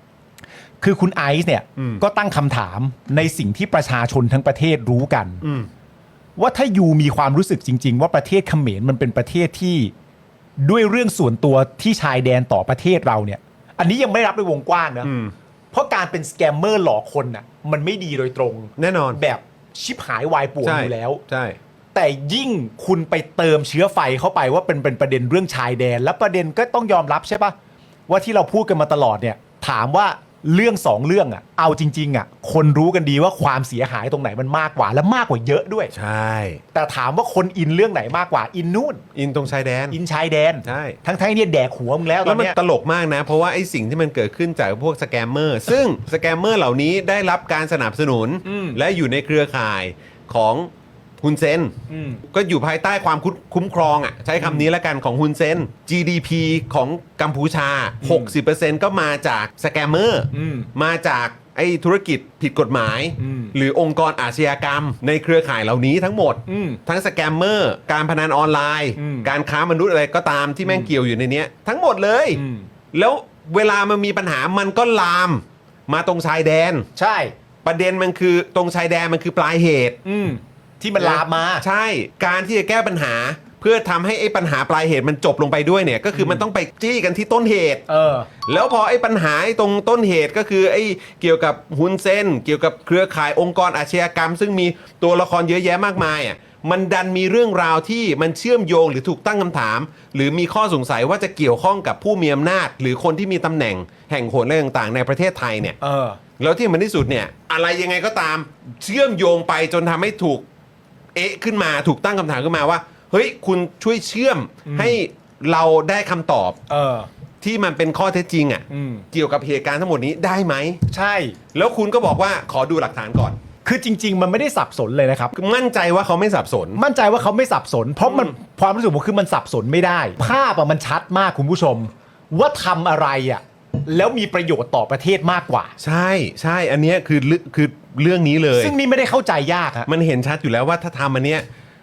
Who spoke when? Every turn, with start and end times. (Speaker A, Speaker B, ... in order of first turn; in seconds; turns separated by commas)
Speaker A: 0.8-5.4, Speaker B: 1.8-2.0, Speaker B: 5.4-5.7, Speaker A: 6.4-9.9, Speaker A: 10.6-15.1, Speaker B: 15.0-15.3, Speaker A: 15.7-21.2, Speaker B: 18.8-19.2, Speaker B: 20.6-21.6, Speaker A: 21.9-27.5, Speaker A: 28.1-35.9, Speaker B: 35.9-36.6, Speaker A: 36.7-39.0, Speaker B: 39.1-40.0, Speaker A: 39.9-42.5, Speaker B: 40.6-41.0, Speaker B: 42.2-50.7, Speaker A: 48.4-48.8, Speaker B: 51.2-51.7, Speaker A: 51.9-52.2, Speaker B: 52.3-72.4, Speaker A: 54.4-54.6, Speaker A: 58.0-58.3, Speaker A: 60.3-60.7, Speaker A: 63.2-63.5, Speaker A: 66.5-66.8, Speaker A: 69.0-69.3, Speaker A: 72.3-72.7, Speaker B: 72.9-76.8, Speaker A: 77.0-77.3, Speaker B: 77.6-80.0, Speaker A: 80.0-81.6, Speaker B: 81.0-87.8, Speaker A: 86.1-86.4, Speaker A: 87.9-88.3, Speaker B: 88.5-105.8, Speaker A: 105.8-106.2, Speaker B: 106.4-110.5, Speaker B: 111.1-116.6, Speaker A: 114.7-115.0, Speaker A: 116.7-117.1, Speaker B: 117.4-120.8, Speaker A: 118.7-119.0, Speaker A: 120.9-121.4, Speaker B: 121.5-123.4, Speaker A: 123.6-125.3, Speaker B: 125.3-126.8, Speaker A: 126.8-135.7, Speaker B: 128.0-128.3, Speaker B: 135.8-138.7, Speaker A: 138.5-139.9, Speaker B: 139.9-141.4